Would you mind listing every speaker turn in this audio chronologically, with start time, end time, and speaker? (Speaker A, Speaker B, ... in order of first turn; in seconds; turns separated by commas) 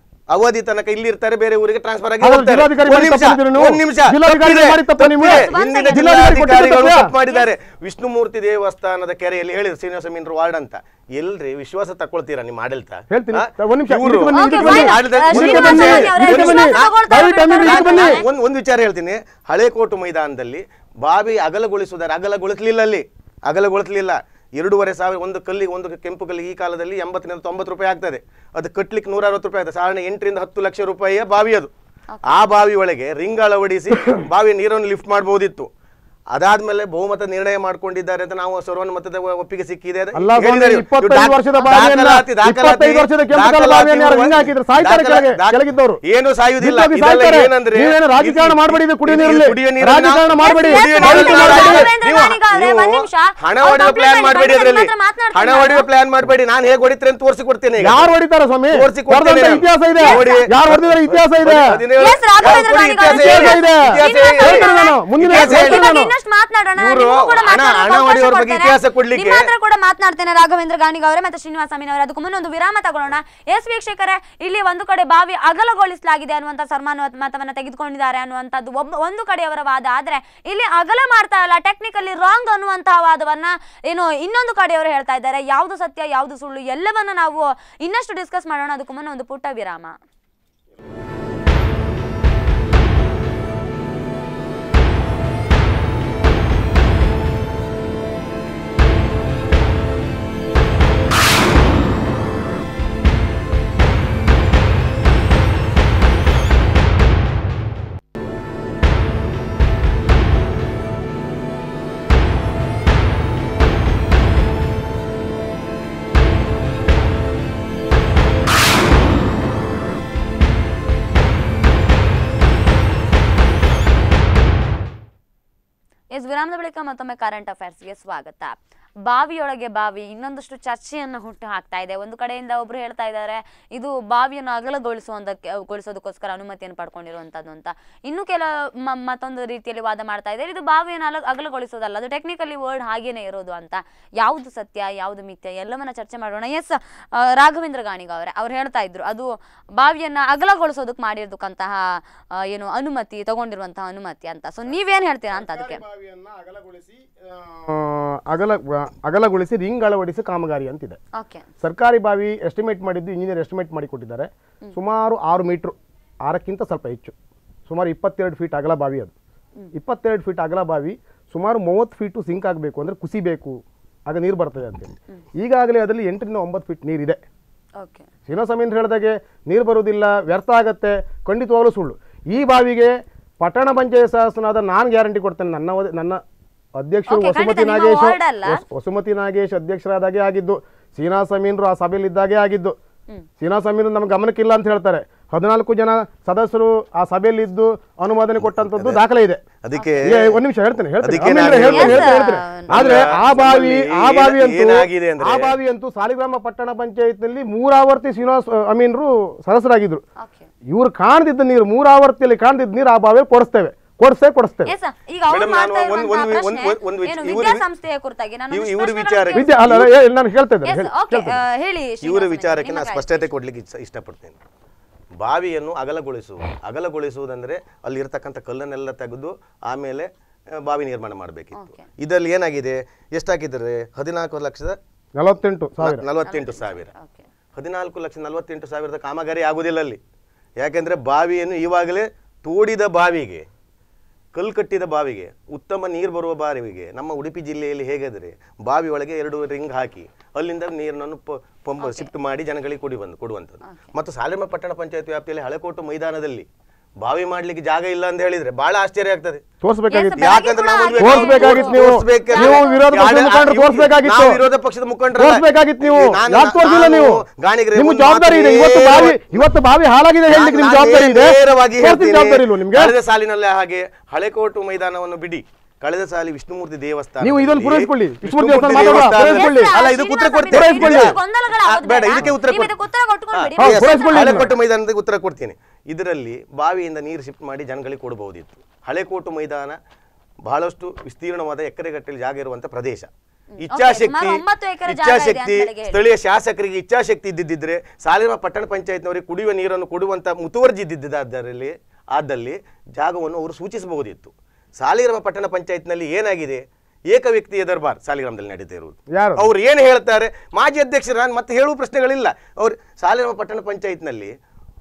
Speaker A: 0.3-16.9, Speaker B: 2.2-7.1, Speaker C: 5.3-6.0, Speaker B: 13.1-18.2, Speaker C: 14.3-18.2, Speaker A: 17.6-31.7, Speaker A: 32.3-35.7, Speaker A: 36.3-58.1, Speaker B: 40.1-46.0, Speaker B: 46.6-51.9, Speaker C: 50.4-55.9, Speaker B: 57.8-61.8, Speaker A: 58.7-66.0, Speaker C: 60.0-60.5, Speaker C: 62.0-90.0, Speaker B: 63.1-66.1, Speaker A: 66.8-69.5, Speaker C: 126.1-155.8, Speaker B: 155.3-161.0, Speaker C: 161.2-161.5, Speaker B: 161.6-167.2, Speaker B: 167.7-169.1, Speaker B: 169.7-177.2, Speaker C: 177.8-178.1, Speaker B: 178.3-186.2, Speaker B: 186.8-192.8, Speaker C: 187.1-188.6, Speaker B: 193.4-199.4, Speaker A: 198.6-199.0, Speaker A: 199.6-200.4, Speaker B: 200.0-210.0, Speaker A: 201.0-202.2, Speaker C: 201.7-202.8, Speaker A: 202.7-205.5, Speaker C: 210.2-210.5, Speaker B: 210.7-214.7, Speaker C: 214.7-219.5, Speaker A: 215.3-217.6, Speaker A: 218.5-219.9, Speaker B: 219.3-221.4, Speaker C: 220.7-223.2, Speaker A: 222.0-224.4, Speaker A: 225.2-234.8, Speaker C: 231.6-231.9, Speaker B: 235.2-236.0, Speaker A: 235.8-236.9, Speaker C: 236.2-237.3, Speaker A: 237.6-240.0, Speaker A: 240.6-243.5, Speaker A: 244.3-256.5, Speaker C: 251.8-252.1, Speaker C: 253.7-253.9, Speaker A: 257.0-259.4, Speaker B: 259.6-260.2, Speaker C: 259.9-262.9, Speaker A: 260.2-269.4, Speaker B: 261.0-264.4, Speaker B: 265.2-267.2, Speaker B: 267.8-272.9, Speaker A: 270.3-282.7, Speaker B: 277.2-279.7, Speaker C: 278.8-284.6, Speaker B: 280.5-281.2, Speaker A: 283.3-289.8, Speaker B: 283.6-284.5, Speaker A: 290.4-293.1, Speaker C: 293.6-296.0, Speaker A: 293.6-314.3, Speaker B: 309.1-309.5